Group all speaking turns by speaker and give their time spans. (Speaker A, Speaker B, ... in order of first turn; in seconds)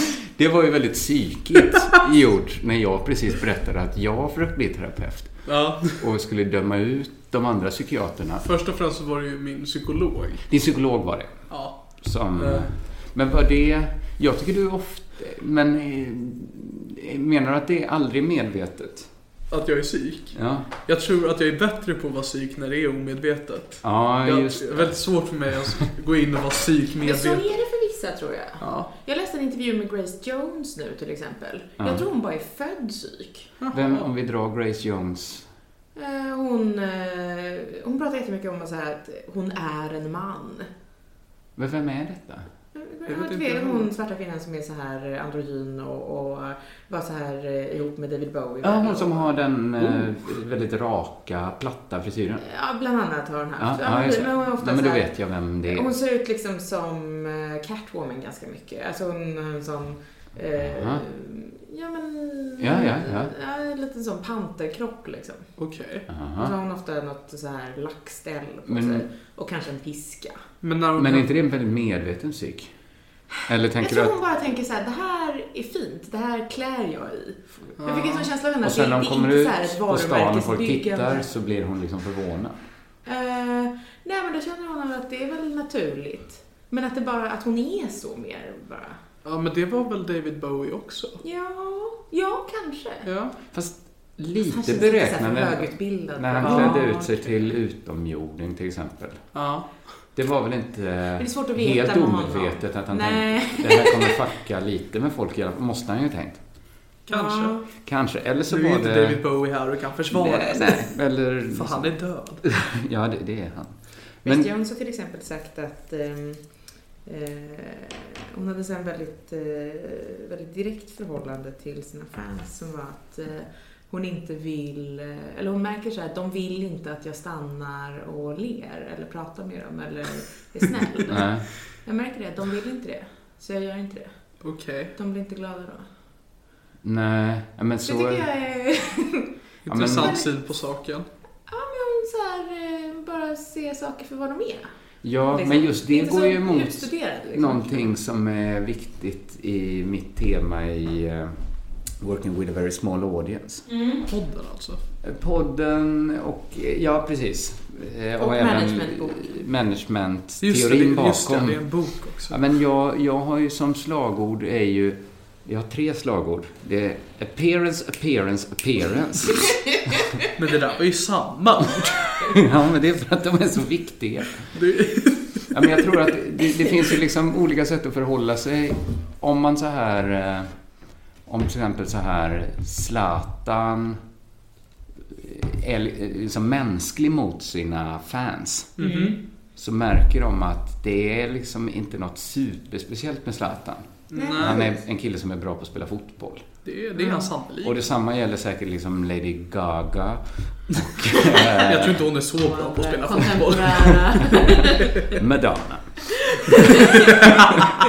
Speaker A: 0.2-8.4, 10.5-19.1, 20.3-20.7, 23.8-25.5, 31.8-32.0, 33.7-35.5, 41.5-42.5, 48.6-52.4, 53.6-55.9, 60.6-61.0, 62.6-63.3, 66.1-66.5, 68.7-69.1, 70.9-72.7, 73.5-74.1, 78.6-82.5, 93.5-99.4, 100.1-106.4, 107.8-109.2, 110.1-114.5, 131.1-131.5, 136.8-138.3, 139.7-140.2, 145.0-151.4, 152.0-153.7, 155.0-169.7, 172.2-174.5, 175.5-180.5, 181.2-184.0, 185.1-188.8, 189.6-196.5, 197.6-202.1, 205.1-206.4
Speaker B: 5.5-6.0, 8.4-10.5, 11.5-12.7, 19.5-27.5, 28.6-28.9, 33.6-34.1, 43.1-43.9, 49.8-50.1, 65.6-66.0, 70.6-71.3, 77.8-78.3, 89.2-91.2, 93.0-93.3, 96.4-96.8, 99.3-100.0, 107.1-107.6, 108.5-110.9, 111.5-112.4, 134.4-134.9, 139.6-141.1, 154.1-154.8, 160.4-162.4, 170.3-172.2, 174.5-175.7, 188.8-189.2, 194.1-194.6, 196.6-197.8, 201.6-204.2
Speaker C: 27.0-33.5, 35.9-40.7, 42.7-49.3, 52.4-65.5, 66.4-70.4, 73.8-81.3, 83.0-89.0, 91.2-93.1, 94.5-97.5, 101.2-104.2, 107.1-107.6, 114.2-116.5, 117.0-135.9, 137.8-140.4, 141.5-144.7, 145.3-147.9, 153.7-154.0, 158.2-159.3, 188.8-189.2, 194.1-194.8, 197.0-197.3, 202.4-205.1, 206.4-207.2